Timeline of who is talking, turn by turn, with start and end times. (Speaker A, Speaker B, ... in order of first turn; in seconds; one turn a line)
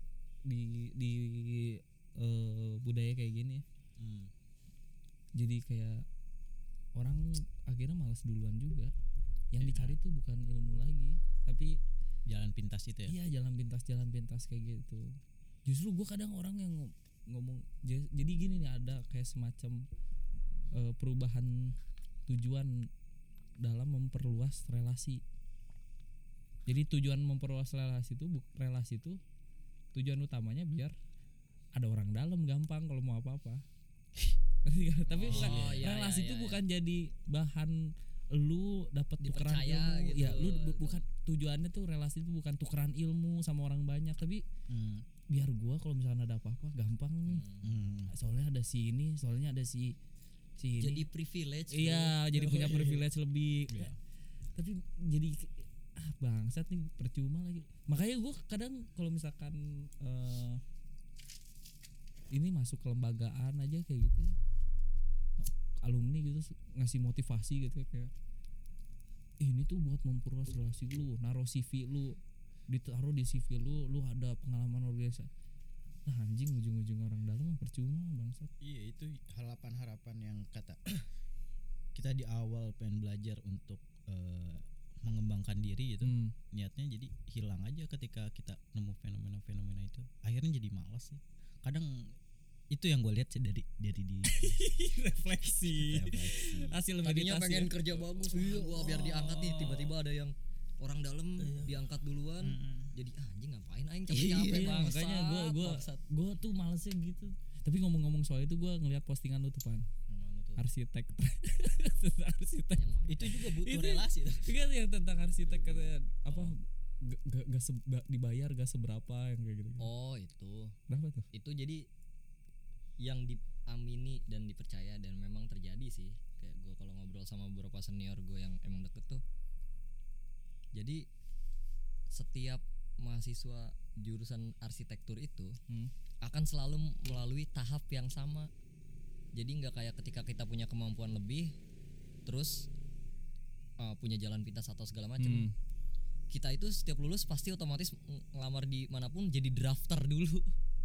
Speaker A: 0.4-3.6
Speaker B: 4.0-4.3
Speaker A: 5.3-6.0
Speaker A: 6.9-8.9
Speaker A: 9.5-11.8
Speaker B: 9.6-10.0
Speaker B: 12.3-13.2
Speaker A: 13.1-15.1
Speaker A: 15.7-19.8
Speaker A: 20.7-21.7
Speaker A: 22.3-22.9
Speaker A: 23.6-25.2
Speaker A: 26.6-29.2
Speaker A: 29.9-30.9
Speaker A: 31.7-33.6
Speaker A: 34.6-44.4
Speaker C: 35.1-36.6
Speaker B: 35.2-35.9
Speaker C: 39.2-41.0
Speaker B: 44.7-45.1
Speaker A: 45.3-47.4
Speaker C: 47.2-47.7
Speaker B: 47.6-48.1
Speaker A: 48.1-50.0
Speaker A: 50.6-51.0
Speaker C: 50.8-53.0
Speaker A: 51.7-53.9
Speaker B: 53.7-54.0
Speaker A: 54.5-60.6
Speaker A: 62.3-64.4
Speaker A: 65.4-68.1
Speaker A: 69.4-72.2
Speaker A: 72.7-75.3
Speaker A: 76.0-78.5
Speaker B: 78.6-80.8
Speaker B: 81.9-92.1
Speaker A: 86.0-86.3
Speaker B: 92.7-94.6
Speaker A: 94.3-98.3
Speaker B: 95.7-96.8
Speaker C: 97.0-106.0
Speaker B: 98.3-99.9
Speaker B: 102.4-102.9
Speaker B: 104.1-104.7
Speaker A: 104.3-109.8
Speaker C: 110.1-110.6
Speaker A: 110.6-119.9
Speaker C: 112.7-113.4
Speaker B: 113.1-114.5
Speaker C: 115.5-116.5
Speaker C: 119.8-120.8
Speaker A: 120.9-121.3
Speaker C: 121.3-121.8
Speaker C: 123.0-129.2
Speaker C: 130.7-131.0
Speaker C: 132.1-135.6
Speaker C: 136.2-138.5
Speaker C: 139.3-141.5
Speaker C: 142.2-142.7
Speaker C: 143.8-145.5
Speaker A: 145.2-145.5
Speaker C: 146.3-150.5